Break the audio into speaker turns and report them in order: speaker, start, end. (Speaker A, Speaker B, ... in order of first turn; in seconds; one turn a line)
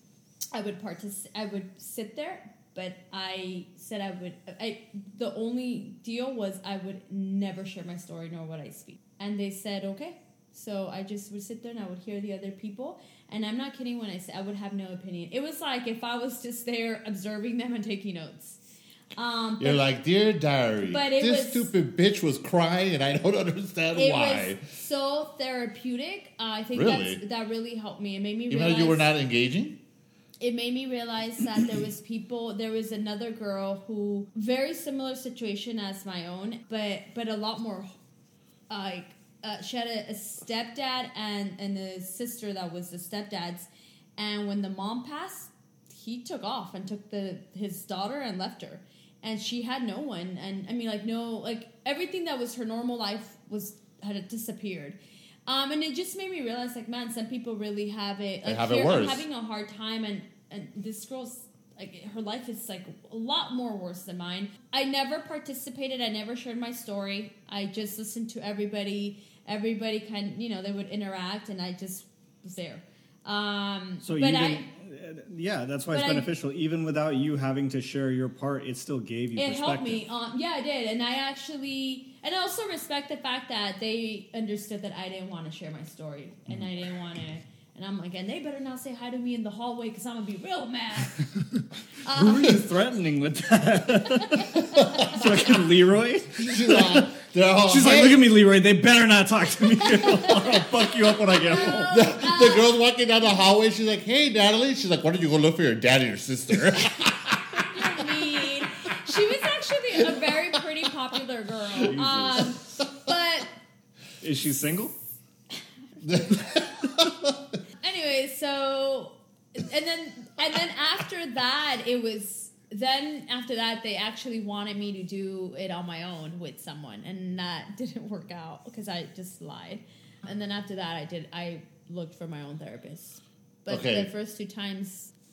Speaker A: 0.5-18.6
Speaker A: 19.1-19.8
Speaker B: 19.6-24.6
Speaker A: 20.8-21.7
Speaker A: 23.9-29.1
Speaker B: 26.7-27.2
Speaker B: 28.5-29.8
Speaker A: 30.4-37.9
Speaker A: 38.7-74.7
Speaker B: 58.4-59.2
Speaker C: 74.0-80.0
Speaker A: 75.9-76.3
Speaker A: 79.3-91.2
Speaker A: 92.0-92.6
Speaker C: 92.1-97.1
Speaker B: 94.5-95.4
Speaker B: 96.4-98.2
Speaker C: 97.6-102.1
Speaker B: 100.3-100.6
Speaker A: 101.3-102.7
Speaker B: 101.9-107.8
Speaker A: 107.5-113.5
Speaker B: 110.1-110.3
Speaker C: 111.8-112.5
Speaker C: 114.2-114.9
Speaker B: 116.0-117.5
Speaker A: 117.8-135.1
Speaker B: 133.7-134.1